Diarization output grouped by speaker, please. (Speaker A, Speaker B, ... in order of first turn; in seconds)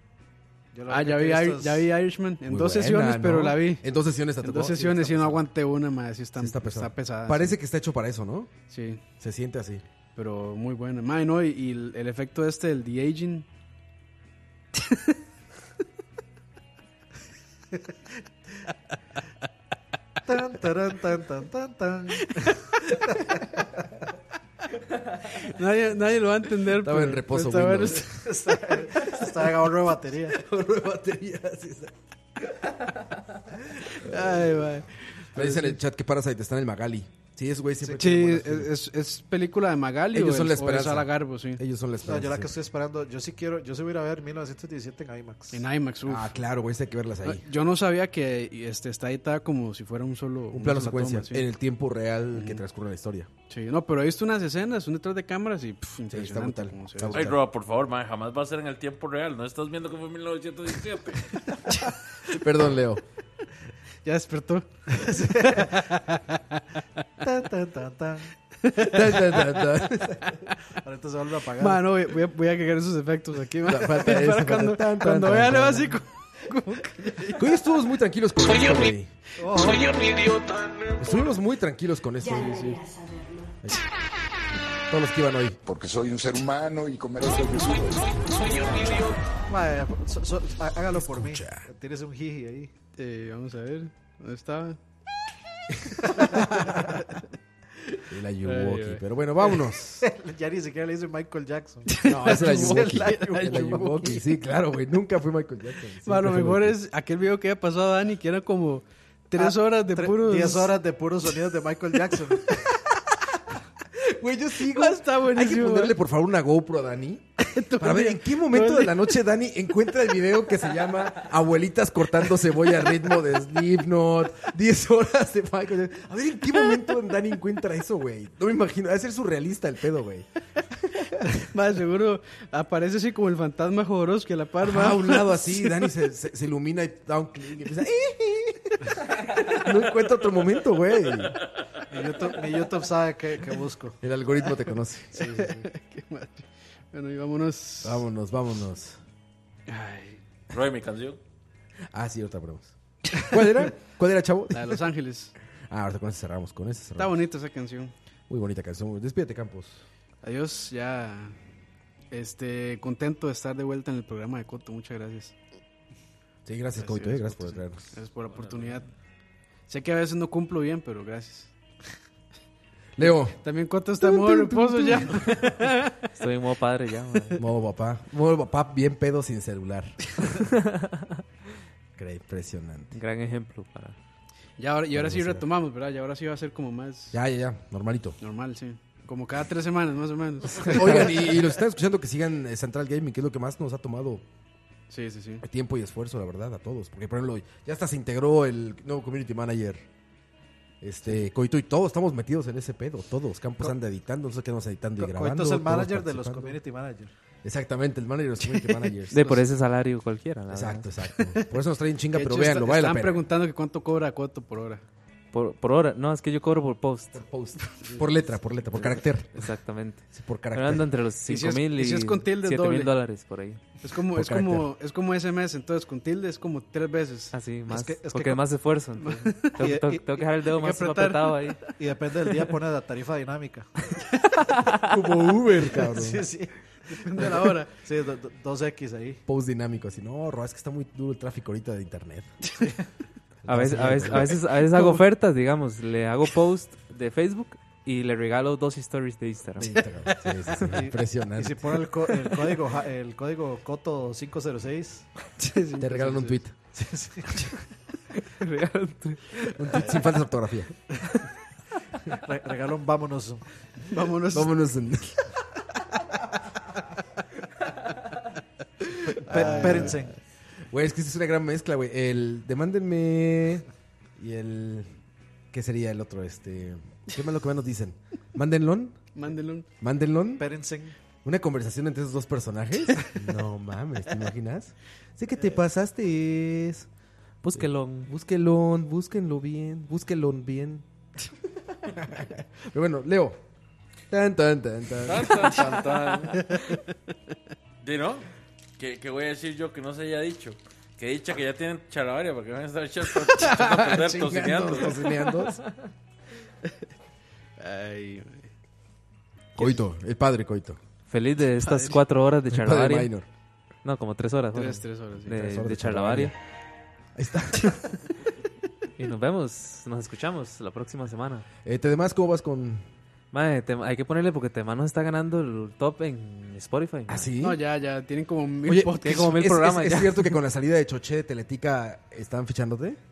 Speaker A: 0.7-1.9, 20.3-23.6, 28.2-30.4, 37.8-38.1, 42.1-45.7, 64.9-65.8, 67.2-68.3, 70.8-71.9, 79.4-80.1, 89.5-92.7, 100.0-104.2, 109.3-112.5, 141.9-144.0, 145.2-145.6, 205.0-207.1, 227.7-228.4, 229.6-230.2, 231.8-233.7, 235.7-236.5, 237.1-239.2, 250.7-255.1, 256.8-257.3, 262.2-263.4, 269.3-270.2, 280.4-281.0
Speaker B: 0.9-3.9, 4.4-7.6, 8.7-9.0, 10.2-13.5, 25.2-28.6, 33.9-35.8, 38.0-41.6, 45.5-46.4, 47.2-51.5, 52.3-52.6, 53.5-57.3, 64.0-64.7, 65.4-66.6, 68.6-69.9, 71.6-77.5, 82.3-83.1, 93.0-94.8, 98.4-99.0, 101.9-104.2, 106.0-110.7, 114.6-116.0, 117.4-119.2, 131.5-135.9, 145.2-148.1, 149.7-150.2, 154.5-155.3, 157.0-157.9, 160.2-161.4, 162.1-165.4, 166.8-168.9, 169.7-171.5, 173.0-176.0, 184.6-187.2, 188.2-191.5, 194.9-195.4, 208.5-209.4, 211.3-211.5, 212.1-214.8, 221.2-222.9, 223.8-227.3, 229.0-229.6, 230.4-231.7, 237.0-237.7, 250.1-250.5, 255.4-256.4, 263.9-264.6, 269.3-270.0, 279.1-279.7, 307.6-308.5, 309.6-309.8, 311.6-312.0, 314.5-315.4, 327.4-329.4
Speaker C: 2.5-5.5, 6.4-8.5, 9.2-9.8, 26.8-28.1, 30.3-31.9, 34.0-34.5, 35.4-38.7, 40.1-42.5, 46.0-47.5, 50.5-53.3, 56.1-57.4, 62.3-63.0, 68.9-70.3, 73.7-76.0, 77.4-79.1, 81.0-82.7, 83.6-83.9, 84.9-85.6, 90.9-91.7, 98.1-100.1, 102.0-106.8, 114.0-130.3, 134.6-141.4, 144.0-145.3, 147.8-149.0, 151.9-154.8, 155.7-157.2, 158.3-159.8, 166.5-167.9, 173.0-173.4, 174.0-175.5, 177.4-180.0, 182.0-182.9, 184.9-185.5, 187.1-188.2, 190.6-194.2, 195.4-199.8, 200.8-206.6, 207.4-209.3, 210.5-213.2, 217.1-219.3, 220.1-220.9, 224.1-224.7, 234.7-236.3, 237.2-237.5, 239.3-242.3, 243.4-244.6, 249.6-251.8, 255.8-256.6, 259.5-260.7, 264.3-265.3, 269.3-270.0, 270.7-273.7, 274.2-274.9, 275.5-279.0, 279.8-280.5, 281.2-286.9, 287.6-290.9, 291.8-293.4, 294.1-296.3, 303.3-305.6, 309.6-310.8, 312.5-313.3, 315.4-316.4, 317.1-317.9, 321.6-322.9, 327.1-327.6, 328.7-333.0
Speaker D: 57.1-61.4, 150.5-151.2, 295.0-296.5, 297.8-305.0
Speaker E: 79.9-81.0, 85.7-89.2
Speaker F: 176.2-177.4, 180.6-180.9, 182.9-184.0, 209.1-210.9, 215.3-217.2, 219.3-223.6, 227.3-231.6, 243.5-249.7, 258.4-259.5, 287.4-288.1, 311.1-313.1, 313.8-316.3, 319.0-321.5, 323.3-327.3, 329.0-330.3